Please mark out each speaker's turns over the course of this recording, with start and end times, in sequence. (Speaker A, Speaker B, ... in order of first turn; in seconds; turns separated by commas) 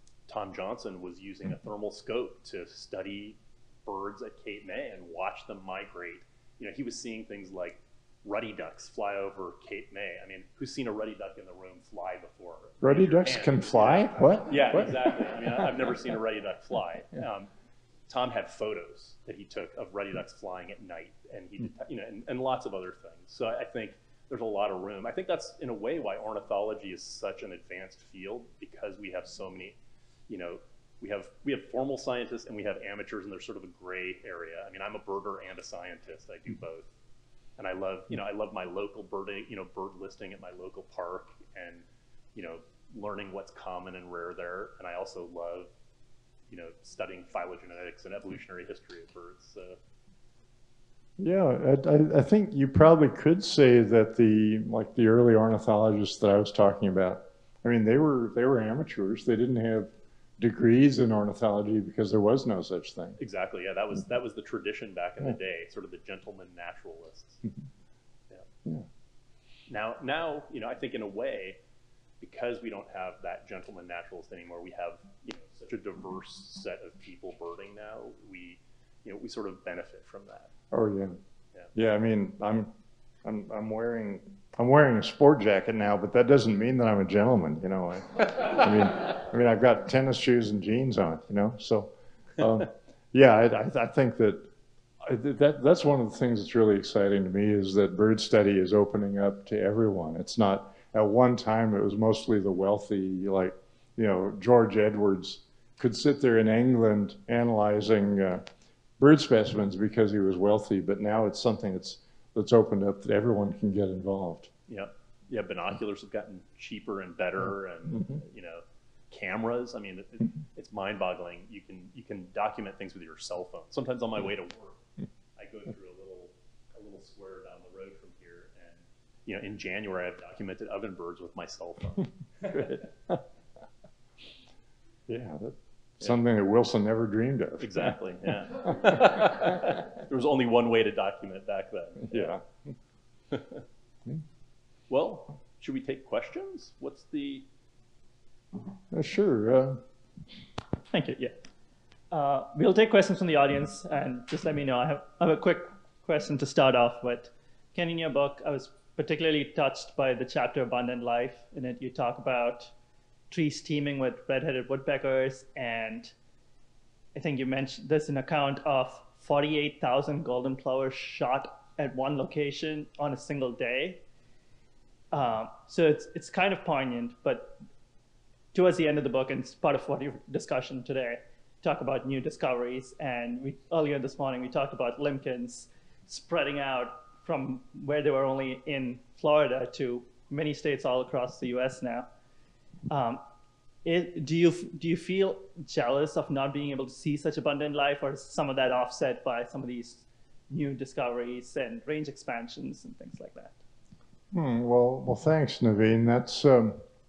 Speaker A: 0.3-17.5, Speaker B: 12.8-15.1, Speaker A: 18.1-29.8, Speaker A: 30.3-36.9, Speaker A: 37.6-45.7, Speaker A: 46.5-49.8, Speaker B: 51.2-63.2, Speaker A: 63.2-67.4, Speaker A: 69.7-71.6, Speaker A: 72.2-80.5, Speaker B: 80.7-81.2, Speaker B: 81.7-82.7, Speaker B: 83.2-94.5, Speaker B: 95.0-108.4, Speaker B: 109.0-114.5, Speaker A: 114.7-124.8, Speaker A: 125.3-132.8, Speaker B: 135.1-137.9, Speaker A: 137.6-142.4, Speaker B: 142.1-142.4, Speaker A: 143.3-143.6, Speaker A: 144.9-147.4, Speaker B: 148.9-149.8, Speaker C: 150.9-151.4, Speaker C: 152.1-162.7, Speaker C: 163.3-166.1, Speaker C: 167.1-174.0, Speaker C: 175.1-177.6, Speaker C: 178.5-192.1, Speaker C: 192.9-193.2, Speaker C: 193.8-203.6, Speaker B: 204.3-206.8